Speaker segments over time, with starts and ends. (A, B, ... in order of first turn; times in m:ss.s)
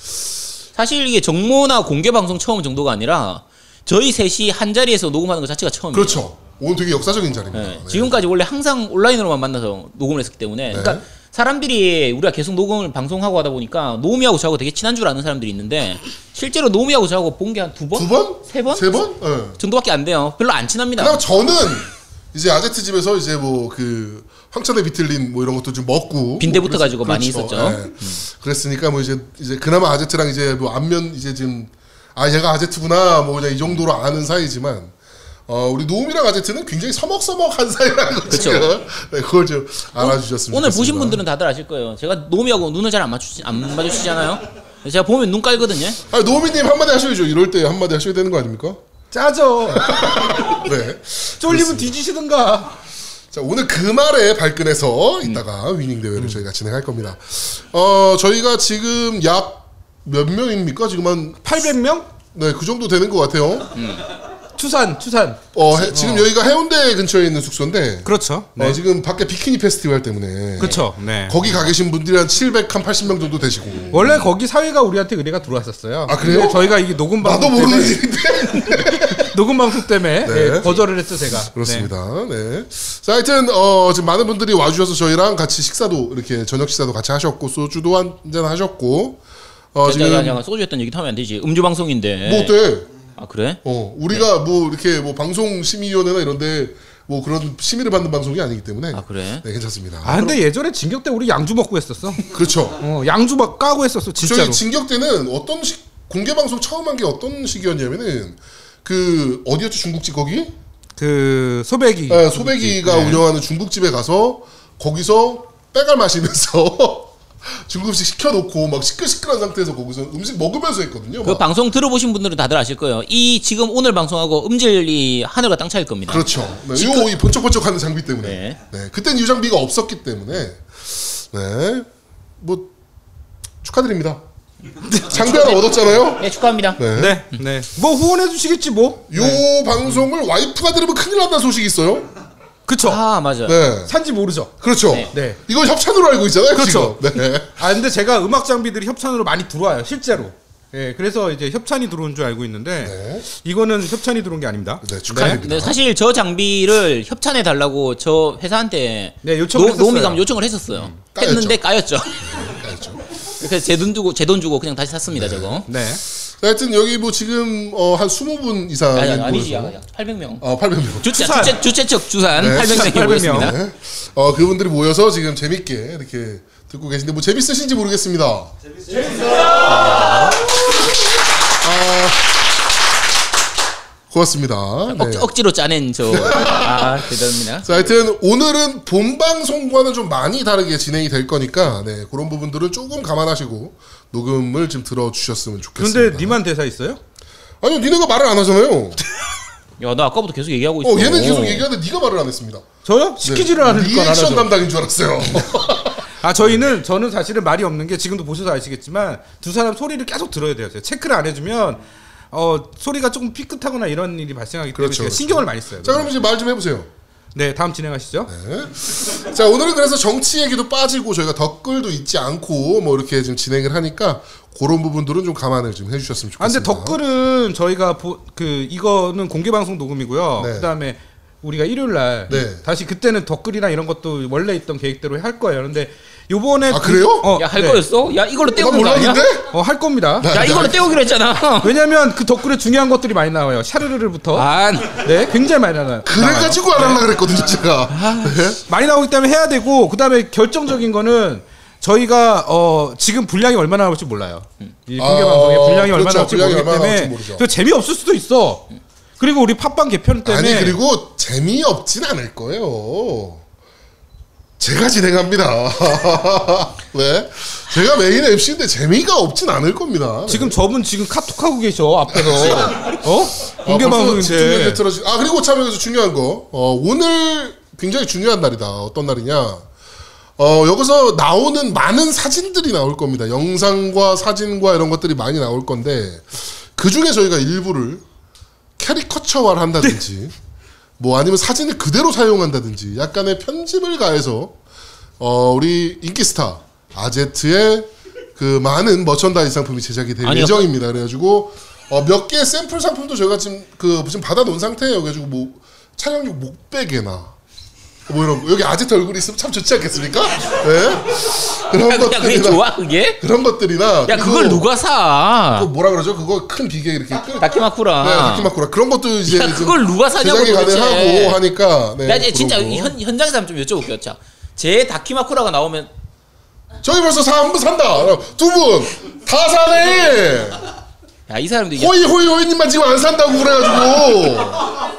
0:00.8-0:06.2 A
0:05.9-0:08.2 B
0:07.5-0:21.2 A
0:10.7-0:11.0 B
0:17.9-0:19.6 B
0:21.0-0:34.9 B
0:26.4-0:28.2 A
0:35.5-0:41.2 B
0:38.3-0:38.7 A
0:40.0-0:46.0 A
0:46.1-0:48.8 B
0:49.1-0:50.5 C
0:49.7-0:51.9 B
0:51.4-0:52.7 C
0:53.3-1:01.7 B
1:01.4-1:02.1 C
1:02.3-1:03.7 B
1:03.7-1:04.0 A
1:04.5-1:06.3 C
1:05.5-1:14.2 B
1:08.0-1:08.8 C
1:10.6-1:11.4 C
1:13.9-1:18.0 C
1:16.0-1:19.3 B
1:18.7-1:21.9 C
1:20.2-1:20.8 B
1:21.4-1:29.2 B
1:29.7-1:30.4 B
1:29.8-1:32.6 A
1:32.2-1:32.9 B
1:33.2-1:34.3 A
1:33.6-1:40.3 B
1:38.9-1:39.4 A
1:40.0-1:42.2 C
1:42.3-1:42.8 B
1:42.8-1:44.6 C
1:44.2-1:50.5 B
1:51.0-1:53.2 C
1:52.1-2:01.4 B
2:01.2-2:07.1 A
2:06.1-2:11.9 B
2:08.2-2:08.6 A
2:12.4-2:12.7 B
2:13.6-2:14.2 B
2:14.8-2:17.2 B
2:15.1-2:17.4 A
2:17.0-2:19.4 C
2:19.1-2:22.1 B
2:22.7-2:23.0 C
2:22.8-2:23.6 A
2:23.4-2:23.9 B
2:23.9-2:24.6 C
2:24.6-2:27.6 B
2:25.1-2:25.4 C
2:26.6-2:35.4 C
2:32.8-2:33.2 B
2:34.8-2:35.8 B
2:35.1-2:42.3 A
2:39.2-2:40.2 C
2:40.7-2:41.0 C
2:41.1-2:41.6 B
2:42.2-2:43.0 B
2:43.4-2:45.6 A
2:45.1-2:45.6 B
2:45.7-2:46.0 C
2:46.4-2:49.8 B
2:48.9-2:50.4 A
2:50.4-2:51.3 B
2:51.0-2:53.5 A
2:51.1-2:51.6 C
2:52.4-2:58.5 B
2:52.4-2:53.5 C
2:59.5-3:00.4 B
3:01.6-3:02.4 B
3:04.1-3:05.3 B
3:04.9-3:07.7 A
3:06.1-3:07.1 B
3:07.6-3:16.4 B
3:15.8-3:17.0 C
3:17.6-3:19.0 B
3:19.8-3:21.6 A
3:20.8-3:22.7 B
3:22.8-3:24.5 C
3:23.2-3:26.6 B
3:26.2-3:31.8 C
3:32.3-3:36.2 C
3:34.7-3:36.9 B
3:37.3-3:38.3 C
3:38.3-3:47.0 B
3:46.4-3:57.8 C
3:50.4-3:50.7 B
3:52.3-3:52.6 B
3:56.7-3:57.3 B
3:57.3-3:59.2 A
3:58.5-3:59.5 B
3:59.5-4:00.4 C
4:00.2-4:00.8 B
4:00.3-4:01.7 A
4:01.6-4:07.0 C
4:04.3-4:05.1 A
4:06.0-4:08.6 B
4:07.9-4:18.7 C
4:15.0-4:17.4 B
4:19.2-4:20.8 C
4:20.2-4:23.4 B
4:24.6-4:30.6 B
4:30.3-4:34.8 C
4:32.1-4:33.0 B
4:33.5-4:39.6 B
4:40.4-4:48.0 B
4:48.8-4:50.3 B
4:51.0-4:54.6 B
4:55.2-5:07.4 B
5:00.2-5:00.6 A
5:08.1-5:12.7 B
5:11.8-5:13.2 A
5:13.2-5:14.7 B
5:14.1-5:15.7 A
5:15.5-5:22.9 B
5:17.4-5:18.5 A
5:19.2-5:21.4 A
5:22.0-5:25.9 A
5:26.8-5:30.7 B
5:31.3-5:32.0 A
5:31.8-5:34.8 B